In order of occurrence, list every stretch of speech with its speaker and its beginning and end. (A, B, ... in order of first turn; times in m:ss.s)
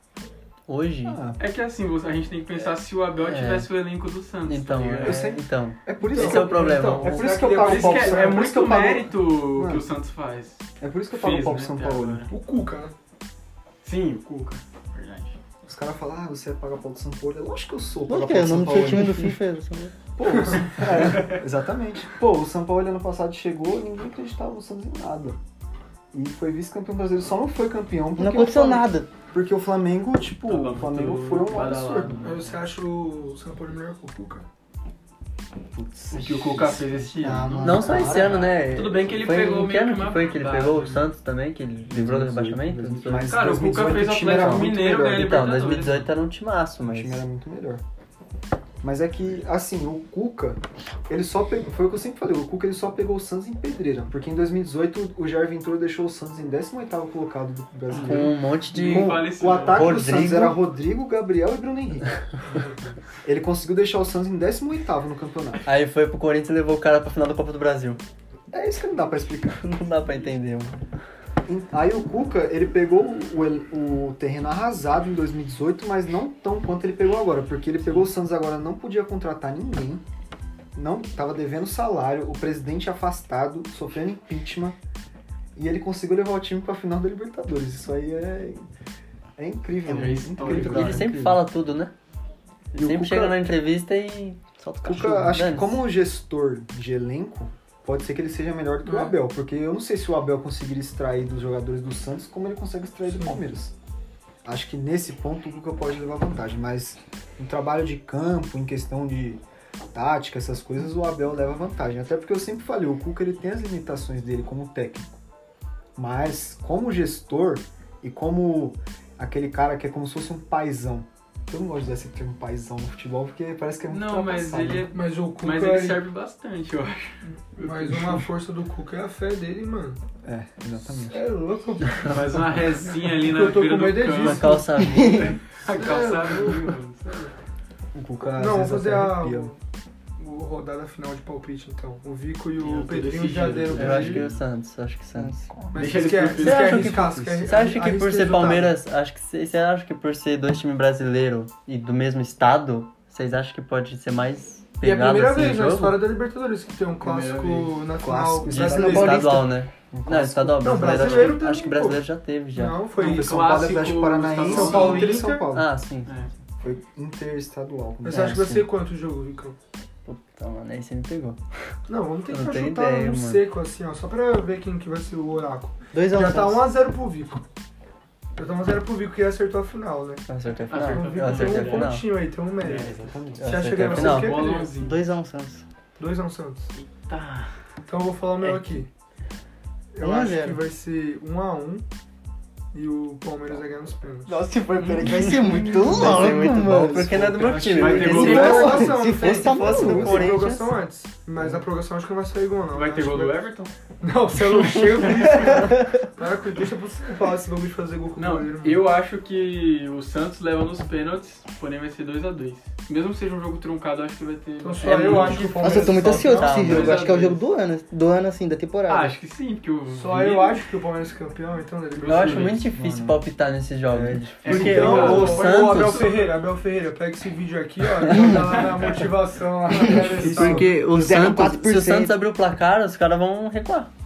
0:00.7-0:01.2 A
0:01.0-0:01.4 B
0:01.4-0:05.3 C
0:03.2-0:03.7 A
0:04.4-0:07.3 A
0:05.0-0:09.8 B
0:06.1-0:08.5 D
0:07.4-0:12.3 C
0:10.8-0:12.3 B
0:12.3-0:12.9 D
0:13.8-0:15.4 C
0:15.6-0:19.4 B
0:18.1-0:19.9 E
0:20.2-0:25.4 B
0:20.3-0:20.7 D
0:26.1-0:32.2 B
0:28.2-0:29.1 E
0:30.4-0:32.6 C
0:32.2-0:34.4 D
0:35.7-0:38.5 B
0:36.1-0:41.1 C
0:37.6-0:43.3 A
0:41.9-0:45.3 B
0:43.2-0:46.1 C
0:44.2-0:47.2 A
0:46.8-0:47.8 B
0:48.8-1:02.1 B
0:57.9-1:00.1 C
0:57.9-1:00.6 A
1:03.2-1:05.6 B
1:05.6-1:08.0 A
1:08.5-1:09.7 B
1:09.6-1:10.8 A
1:11.4-1:20.0 B
1:20.7-1:24.8 B
1:25.6-1:28.7 B
1:29.4-1:31.4 B
1:29.8-1:31.1 C
1:30.4-1:31.9 A
1:32.7-1:33.4 B
1:32.8-1:35.8 A
1:34.8-1:43.7 B
1:38.8-1:39.2 D
1:44.4-1:55.2 B
1:56.0-2:04.9 B
2:03.9-2:07.2 C
2:04.9-2:06.0 D
2:07.2-2:10.0 D
2:07.8-2:08.2 C
2:10.2-2:11.2 B
2:11.0-2:12.4 D
2:12.1-2:17.3 C
2:13.1-2:14.7 D
2:14.2-2:15.4 A
2:14.8-2:15.3 E
2:15.7-2:16.8 D
2:17.9-2:19.5 B
2:18.4-2:19.6 D
2:20.2-2:24.2 D
2:22.6-2:24.4 C
2:23.7-2:25.5 A
2:25.5-2:26.1 B
2:25.7-2:28.7 D
2:25.7-2:27.0 C
2:26.3-2:36.0 A
2:26.8-2:27.3 B
2:34.8-2:39.5 D
2:37.0-2:37.8 C
2:38.0-2:41.4 B
2:38.4-2:42.8 A
2:40.6-2:43.4 D
2:43.0-2:45.2 C
2:43.0-2:45.7 B
2:44.4-2:45.4 D
2:44.7-2:46.2 A
2:46.6-2:48.5 B
2:48.0-2:49.6 D
2:48.1-2:48.7 A
2:50.0-2:51.4 A
2:51.9-2:57.4 D
2:52.3-2:53.5 A
2:55.9-2:56.7 E
2:58.4-3:00.2 D
3:00.3-3:02.1 A
3:00.7-3:02.0 C
3:00.8-3:04.8 D
3:02.6-3:03.2 C
3:02.7-3:03.7 B
3:03.4-3:04.5 A
3:03.8-3:05.0 C
3:04.8-3:05.6 E
3:06.0-3:06.7 D
3:06.7-3:07.5 C
3:07.9-3:08.9 D
3:08.4-3:08.7 A
3:09.9-3:11.8 D
3:10.0-3:10.6 E
3:12.7-3:14.5 D
3:14.3-3:17.2 E
3:14.8-3:16.5 B
3:15.0-3:20.7 A
3:17.0-3:17.5 B
3:17.3-3:18.9 C
3:17.8-3:23.4 D
3:17.9-3:20.7 E
3:22.7-3:23.7 C
3:24.0-3:28.8 D
3:25.2-3:25.5 C
3:28.2-3:37.4 C
3:34.6-3:37.0 D
3:34.8-3:37.1 A
3:35.6-3:39.2 E
3:38.9-3:40.6 C
3:39.9-3:42.6 D
3:42.0-3:42.6 C
3:42.0-3:46.1 A
3:42.7-3:43.2 B
3:43.9-3:45.5 B
3:44.4-3:46.5 C
3:44.5-3:50.7 D
3:48.1-3:48.9 C
3:49.9-3:50.7 B
3:49.9-3:53.9 A
3:50.4-3:52.2 E